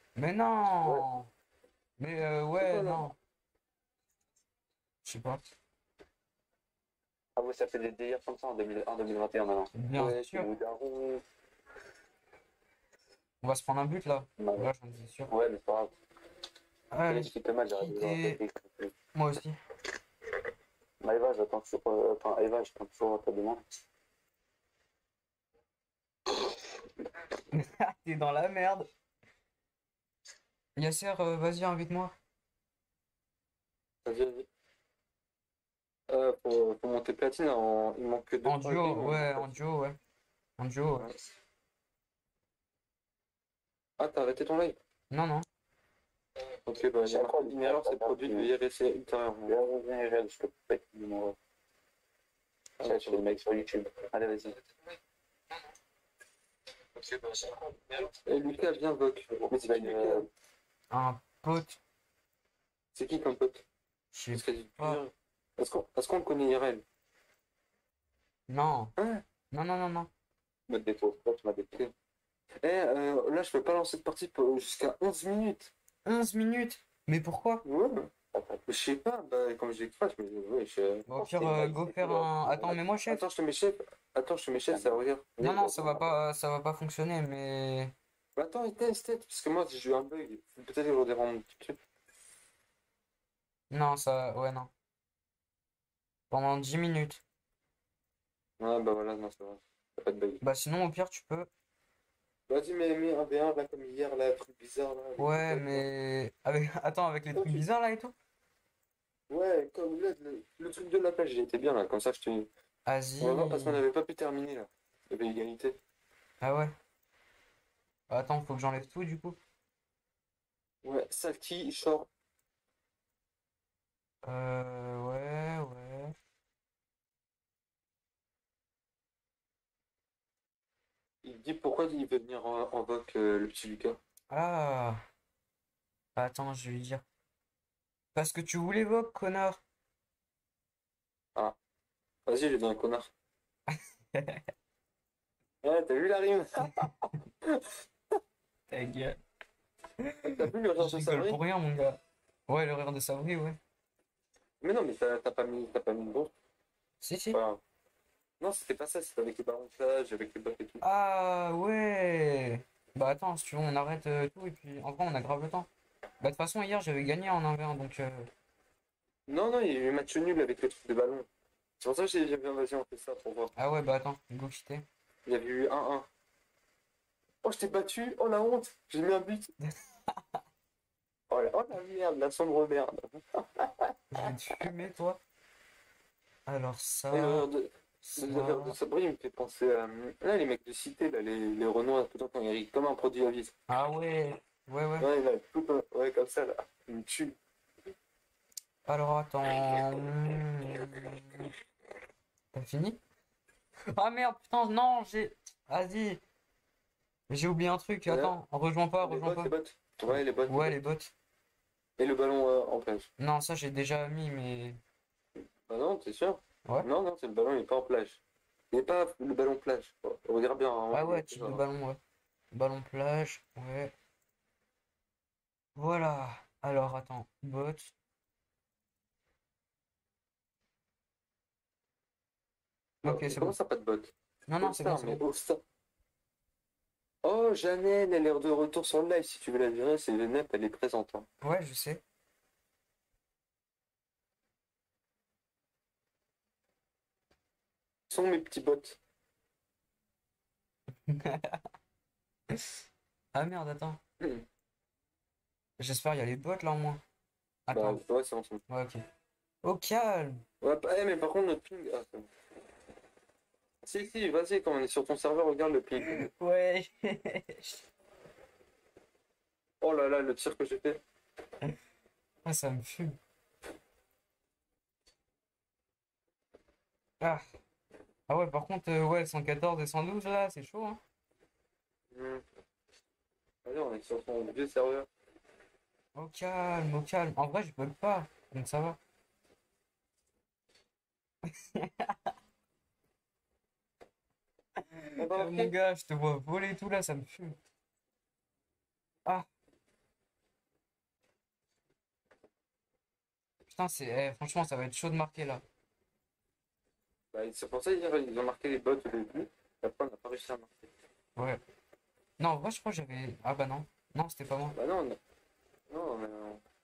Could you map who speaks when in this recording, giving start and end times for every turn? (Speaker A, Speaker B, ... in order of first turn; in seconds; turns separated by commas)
Speaker A: 0.1-1.3, Speaker A: 2.0-3.1, Speaker B: 2.6-3.1, Speaker A: 5.0-5.5, Speaker C: 7.3-11.2, Speaker A: 9.7-10.5, Speaker B: 10.0-10.6, Speaker A: 13.4-15.3, Speaker C: 14.4-14.7, Speaker C: 15.3-15.9, Speaker A: 16.9-18.4, Speaker C: 17.1-18.9, Speaker A: 19.1-19.6, Speaker C: 21.0-23.6, Speaker A: 27.5-28.9, Speaker A: 30.8-32.1, Speaker B: 34.0-34.5, Speaker B: 36.1-39.5, Speaker A: 38.4-40.0, Speaker A: 40.6-41.1, Speaker B: 44.0-44.8, Speaker A: 45.1-45.5, Speaker B: 46.6-49.6, Speaker C: 47.0-48.5, Speaker C: 49.5-51.4, Speaker B: 52.8-53.4, Speaker C: 52.8-54.5, Speaker B: 54.2-54.5, Speaker C: 57.2-57.7, Speaker B: 58.2-60.3, Speaker C: 59.3-60.3, Speaker A: 60.9-61.8, Speaker B: 62.9-63.6, Speaker A: 64.1-65.0, Speaker B: 64.3-66.8, Speaker A: 68.5-68.9, Speaker B: 69.0-69.2, Speaker A: 69.5-70.1, Speaker C: 70.7-71.8, Speaker B: 72.6-75.7, Speaker A: 76.0-77.6, Speaker B: 77.6-78.1, Speaker C: 78.3-78.6, Speaker B: 78.7-81.1, Speaker A: 81.1-83.3, Speaker C: 81.1-82.8, Speaker B: 83.0-86.0, Speaker C: 84.7-86.1, Speaker A: 85.4-87.9, Speaker B: 88.3-91.8, Speaker A: 93.7-94.7, Speaker A: 96.3-97.2, Speaker B: 98.6-100.4, Speaker A: 100.4-101.5, Speaker B: 102.5-105.8, Speaker A: 105.2-108.1, Speaker B: 109.3-112.5, Speaker A: 112.8-113.8, Speaker B: 113.2-115.8, Speaker A: 116.4-116.7, Speaker A: 118.1-119.4, Speaker B: 120.8-122.1, Speaker A: 124.2-126.1, Speaker B: 131.2-134.0, Speaker A: 134.3-135.0, Speaker A: 136.2-137.0, Speaker A: 138.1-139.6, Speaker B: 142.2-143.1, Speaker A: 143.7-144.4, Speaker B: 145.6-147.7, Speaker A: 148.7-149.2, Speaker A: 150.0-153.6, Speaker B: 150.3-151.4, Speaker B: 154.6-156.3, Speaker A: 157.0-157.4, Speaker B: 157.3-157.6, Speaker B: 158.4-160.8, Speaker A: 160.8-165.7, Speaker A: 166.2-168.3, Speaker B: 169.3-171.3, Speaker B: 171.8-173.5, Speaker A: 173.6-174.8, Speaker B: 175.2-176.1, Speaker B: 177.4-179.5, Speaker B: 181.3-184.3, Speaker A: 184.1-185.2, Speaker A: 186.5-187.5, Speaker B: 187.1-193.5, Speaker A: 188.0-188.8, Speaker A: 193.7-195.1, Speaker B: 195.0-197.4, Speaker A: 198.8-201.5, Speaker A: 202.5-203.0, Speaker A: 203.9-206.2, Speaker A: 207.3-209.5, Speaker B: 208.1-208.3, Speaker B: 209.0-210.8, Speaker A: 210.5-211.1, Speaker B: 212.0-213.1, Speaker A: 213.2-214.8, Speaker B: 215.7-221.6, Speaker A: 220.9-222.0, Speaker A: 222.5-223.9, Speaker A: 225.8-227.9, Speaker B: 233.0-235.6, Speaker A: 233.0-233.5, Speaker A: 234.5-235.2, Speaker B: 237.2-241.2, Speaker A: 241.4-242.0, Speaker B: 248.1-249.0, Speaker A: 251.1-251.6, Speaker A: 253.3-254.0, Speaker B: 254.2-254.4, Speaker A: 255.8-257.0, Speaker A: 257.7-258.0, Speaker B: 257.7-258.6, Speaker A: 258.7-259.0, Speaker A: 259.6-260.4, Speaker B: 260.6-262.3, Speaker B: 263.8-266.2, Speaker A: 266.0-267.8, Speaker B: 269.8-271.0, Speaker A: 272.4-273.2, Speaker A: 278.3-281.0, Speaker B: 282.1-282.4, Speaker B: 283.6-285.1, Speaker A: 286.1-289.0, Speaker A: 291.7-292.1, Speaker A: 294.8-297.6, Speaker B: 295.2-295.7, Speaker A: 303.7-305.6, Speaker B: 307.3-310.9, Speaker A: 311.4-311.6, Speaker A: 312.4-314.8, Speaker B: 314.7-315.2, Speaker B: 315.9-316.6